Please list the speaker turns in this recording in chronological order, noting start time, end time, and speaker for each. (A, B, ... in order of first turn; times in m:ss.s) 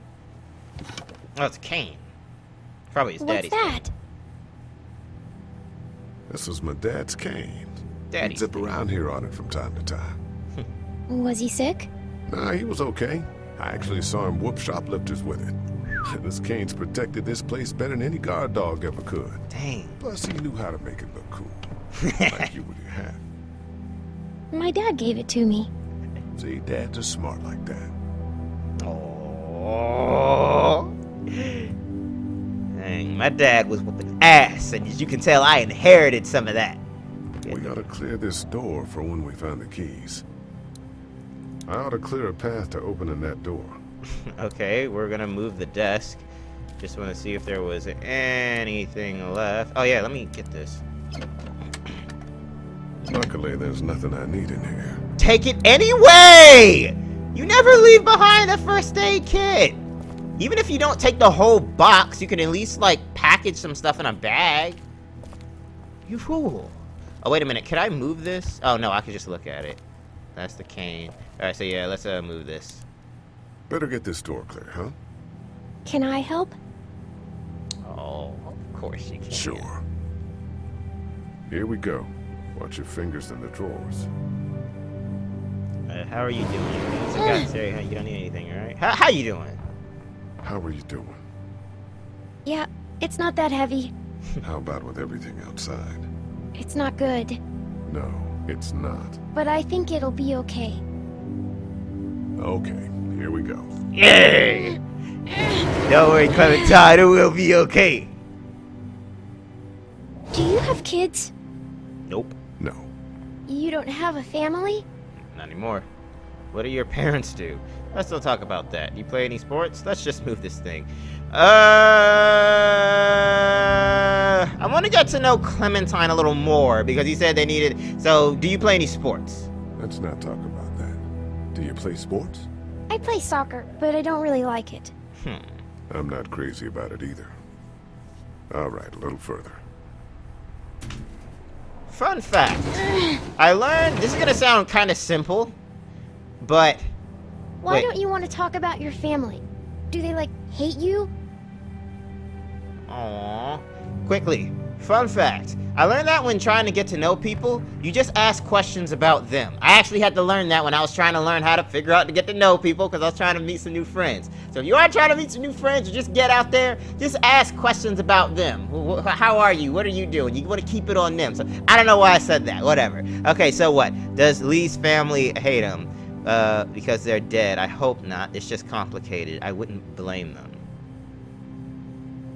0:01.4-0:02.1 A
0:02.9-0:03.8 A
0:03.2-0:03.9 B
0:06.3-0:10.2 C
0:08.1-0:08.7 A
0:11.1-0:11.9 B
0:12.3-0:19.4 C
0:19.5-0:20.0 A
0:20.0-0:21.7 C
0:22.0-0:22.5 A
0:22.3-0:23.2 C
0:24.5-0:25.7 B
0:26.3-0:27.9 C
0:28.8-0:31.7 A
0:32.7-0:36.8 A
0:37.4-0:40.2 C
0:37.4-0:37.8 A
0:41.7-0:43.8 C
0:44.3-0:46.2 A
0:46.8-0:50.8 A
0:53.0-0:55.0 C
0:55.2-0:59.8 A
1:00.4-1:04.8 A
1:06.1-1:09.8 A
1:10.4-1:12.8 A
1:13.7-1:15.0 C
1:15.8-1:16.6 B
1:17.8-1:19.7 A
1:19.3-1:19.8 C
1:21.5-1:24.1 C
1:25.9-1:29.6 A
1:27.1-1:27.5 B
1:30.4-1:31.2 C
1:32.4-1:33.9 B
1:34.4-1:36.1 C
1:36.6-1:37.4 B
1:37.8-1:39.2 C
1:39.3-1:40.8 B
1:42.4-1:43.7 C
1:44.0-1:44.8 A
1:45.8-1:48.1 A
1:50.3-1:51.3 B
1:52.1-1:52.4 A
1:52.6-1:52.9 C
1:53.5-1:54.9 B
1:55.3-1:55.9 A
1:56.5-2:09.5 A
2:09.8-2:12.5 C
2:12.9-2:14.9 B
2:15.2-2:15.5 A
2:15.9-2:17.4 C
2:18.5-2:19.6 C
2:21.9-2:22.8 A
2:22.8-2:23.2 B
2:23.4-2:25.5 A
2:26.4-2:26.9 A
2:27.6-2:31.1 B
2:32.9-3:00.6 A